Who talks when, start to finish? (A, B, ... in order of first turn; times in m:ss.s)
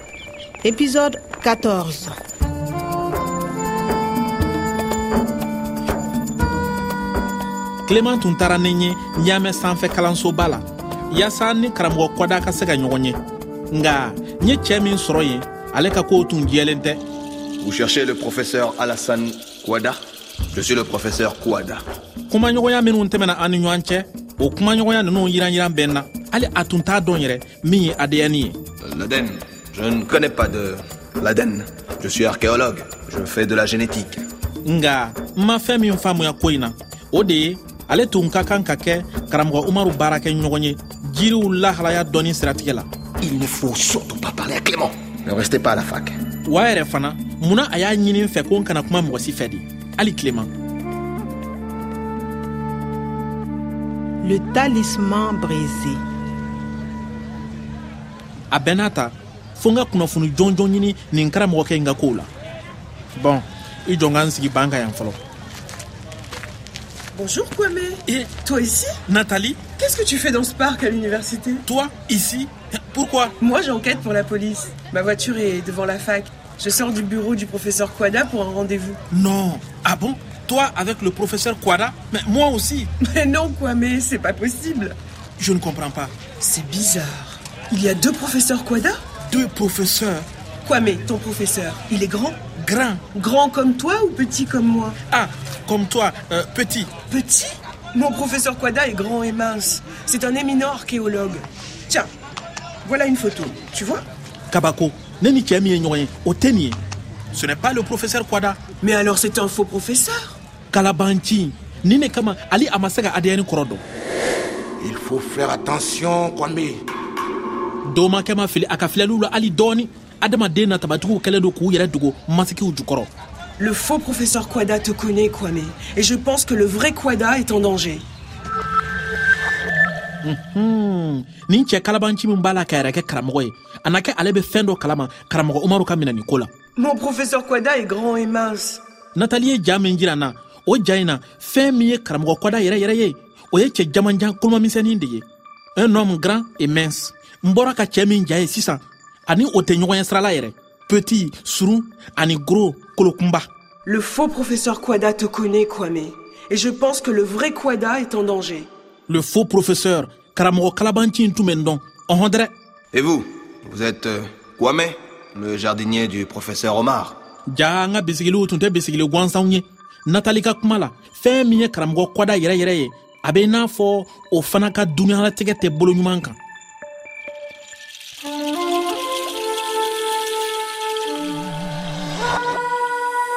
0:00.6-0:02.2 A
0:07.8-0:13.2 B
0:13.7-0:17.0 B
0:17.6-0:20.0 C
0:20.5-0:21.8 C
0:22.3-0:28.6 B
0:28.8-0:34.2 C
0:34.6-0:42.9 B
0:43.2-0:46.2 C
0:46.4-0:50.5 B
0:54.2-0:56.0 A
0:58.5-1:02.3 B
1:03.2-1:05.2 B
1:07.1-1:09.0 D
1:09.1-1:09.6 B
1:09.8-1:11.6 D
1:11.6-1:13.4 B
1:13.4-1:19.0 D
1:19.1-1:22.9 B
1:23.0-1:25.0 D
1:25.4-1:26.1 B
1:26.4-1:29.0 D
1:29.2-1:30.3 B
1:30.6-1:32.4 D
1:32.6-1:33.0 B
1:33.1-1:35.0 D
1:35.1-1:36.9 B
1:37.1-1:42.1 D
1:42.8-1:44.1 D
1:44.5-1:46.8 B
1:47.3-1:48.6 B
1:48.8-1:50.4 D
1:50.7-1:53.8 B
1:54.8-1:56.8 E
1:57.8-2:03.1 B
2:03.6-2:08.1 D
2:10.2-2:16.5 B
2:16.8-2:18.8 D
2:19.2-2:33.5 B
2:33.8-2:38.7 D
2:39.1-2:42.5 B
2:42.9-2:47.2 C
2:47.5-2:56.4 B